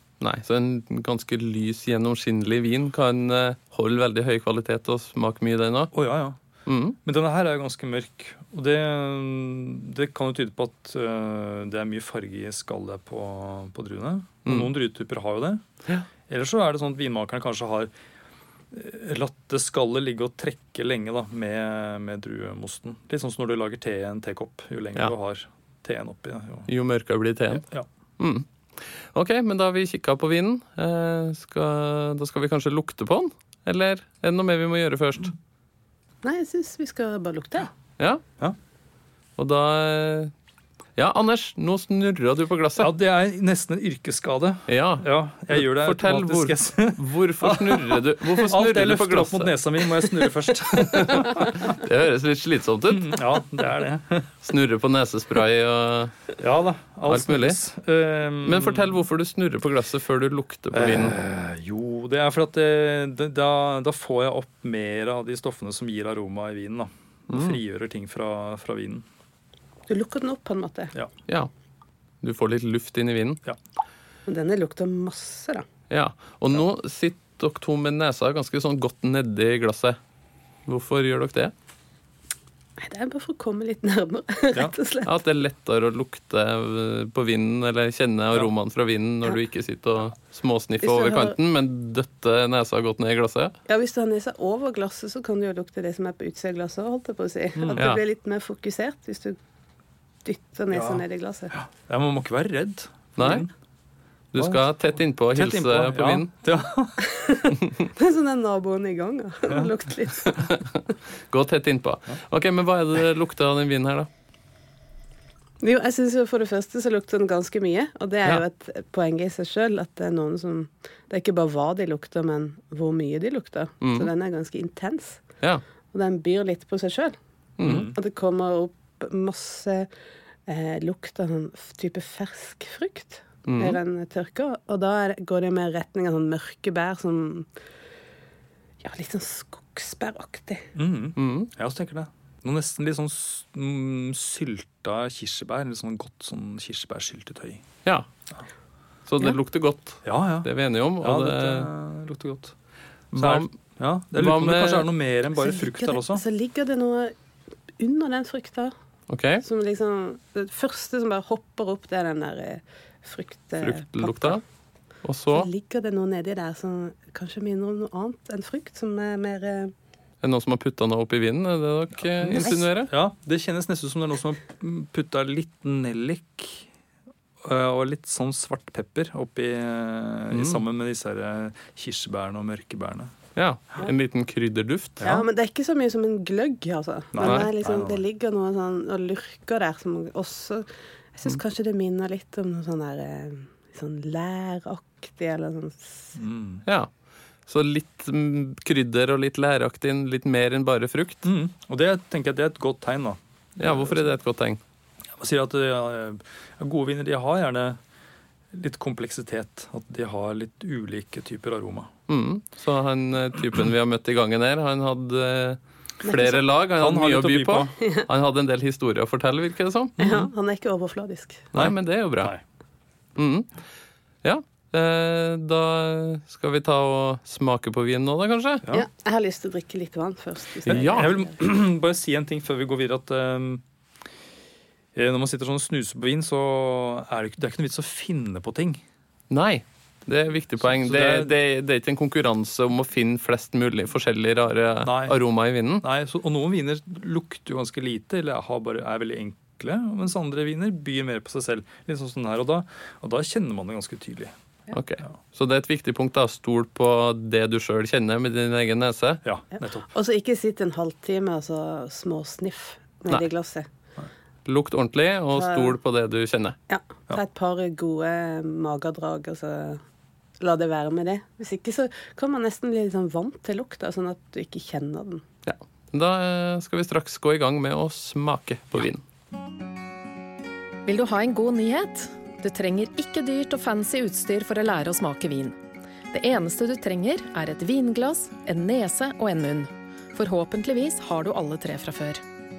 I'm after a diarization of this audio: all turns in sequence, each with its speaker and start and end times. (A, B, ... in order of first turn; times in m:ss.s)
0:00.2-0:05.9 A
0:05.9-0:06.4 B
0:06.7-0:07.0 A
0:07.0-0:15.6 B
0:16.3-0:17.9 B
0:18.7-0:26.7 B
0:26.7-0:27.6 A
0:27.5-0:27.9 B
0:28.2-0:28.5 A
0:29.1-0:35.3 A
0:36.2-0:37.7 C
0:39.4-0:40.3 A
0:41.0-0:42.9 A
0:42.8-0:51.6 B
0:44.7-0:50.3 A
0:50.8-0:53.2 A
0:52.9-0:54.3 B
0:54.4-0:56.2 A
0:56.4-0:58.9 B
0:57.1-0:57.6 A
0:58.4-1:01.2 A
1:00.7-1:09.0 B
1:07.3-1:07.6 A
1:09.9-1:10.9 C
1:12.2-1:13.4 A
1:14.3-1:15.6 C
1:15.9-1:20.0 A
1:20.7-1:21.5 A
1:22.8-1:25.2 C
1:25.0-1:33.6 A
1:30.8-1:31.4 C
1:33.7-1:39.4 C
1:37.6-1:37.9 B
1:37.8-1:38.0 A
1:40.2-1:41.5 C
1:40.7-1:43.5 B
1:43.2-1:43.5 A
1:44.3-1:46.3 A
1:44.4-1:44.7 B
1:45.3-1:47.1 B
1:47.2-1:50.5 C
1:51.3-1:54.1 A
1:55.6-2:05.2 C
2:03.8-2:04.1 A
2:05.9-2:07.2 C
2:07.6-2:07.9 A
2:07.6-2:08.0 B
2:07.9-2:09.9 C
2:10.5-2:17.5 C
2:13.5-2:13.8 A
2:18.8-2:20.7 C
2:20.8-2:27.6 B
2:21.2-2:21.5 A
2:29.1-2:31.7 A
2:30.0-2:30.5 B
2:31.0-2:32.5 B
2:33.1-2:33.5 A
2:33.2-2:36.2 B
2:34.1-2:34.9 A
2:35.4-2:37.1 C
2:37.8-2:38.7 C
2:39.1-2:39.4 A
2:39.4-2:44.4 C
2:43.6-2:44.4 A
2:45.0-2:45.5 A
2:45.3-2:49.7 C
2:50.2-2:52.9 A
2:52.2-2:56.7 B
2:52.3-2:52.7 C
2:57.4-3:03.1 B
3:00.3-3:00.6 A
3:03.4-3:05.1 A
3:05.0-3:16.1 C
3:07.1-3:08.0 B
3:16.2-3:16.6 B
3:17.5-3:21.3 A
3:21.2-3:24.0 B
3:23.6-3:24.6 A
3:25.2-3:27.8 B
3:28.5-3:31.9 B
3:32.1-3:40.0 A
3:36.0-3:36.4 C
3:36.8-3:37.7 B
3:40.0-3:41.5 C
3:41.5-3:42.4 A
3:41.6-3:42.4 B
3:43.2-3:43.5 A
3:44.2-3:48.7 A
3:48.7-3:51.3 C
3:50.7-3:53.6 B
3:50.7-3:51.1 A
3:55.0-3:58.8 B
3:59.3-4:05.8 A
4:00.6-4:01.3 B
4:04.8-4:05.2 B
4:05.8-4:14.3 B
4:14.7-4:19.2 A
4:19.2-4:19.9 B
4:19.9-4:23.7 C
4:24.5-4:26.6 A
4:25.4-4:25.8 C
4:26.7-4:29.8 C
4:30.4-4:35.2 C
4:35.4-4:39.0 A
4:40.9-4:45.6 D
4:46.1-4:52.2 D